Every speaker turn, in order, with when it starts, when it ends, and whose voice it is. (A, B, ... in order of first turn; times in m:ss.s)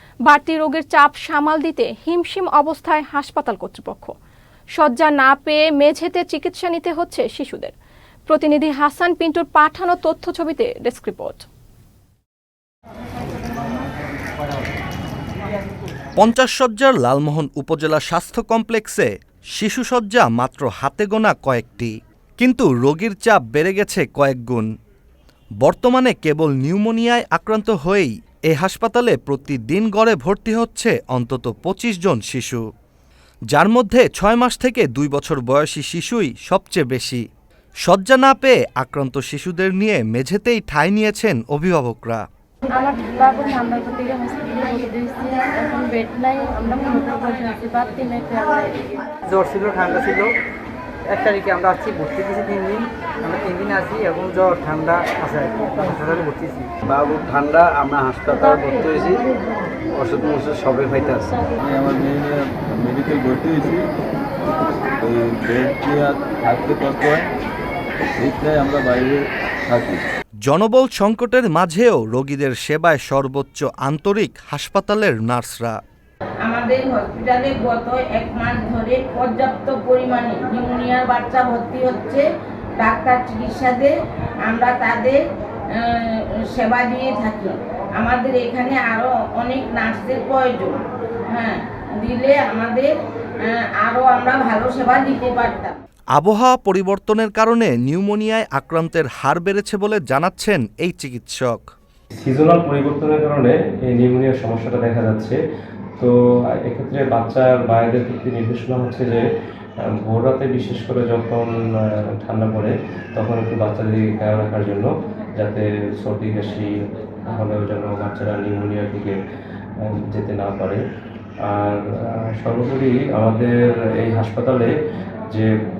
0:00.3-0:04.1 A
0:04.8-0:07.7 A
0:08.3-0:11.4 A
0:16.2-0:24.7 B
0:25.6-0:32.6 B
0:33.5-0:37.2 B
0:37.8-0:42.2 B
0:42.7-0:48.9 C
0:49.3-0:50.3 D
0:51.1-0:56.7 D
0:56.9-0:59.2 E
0:59.9-1:01.4 E
1:01.6-1:03.8 F
1:05.0-1:07.3 F
1:08.2-1:10.0 F
1:10.4-1:15.8 B
1:16.4-1:22.3 G
1:22.8-1:25.2 G
1:25.7-1:30.8 G
1:31.3-1:32.9 G
1:33.5-1:35.8 G
1:36.1-1:41.6 B
1:42.2-1:45.4 H
1:46.6-1:49.2 H
1:49.9-1:56.7 H
1:57.3-1:59.2 H
1:59.8-2:00.8 H
2:01.5-2:04.7 H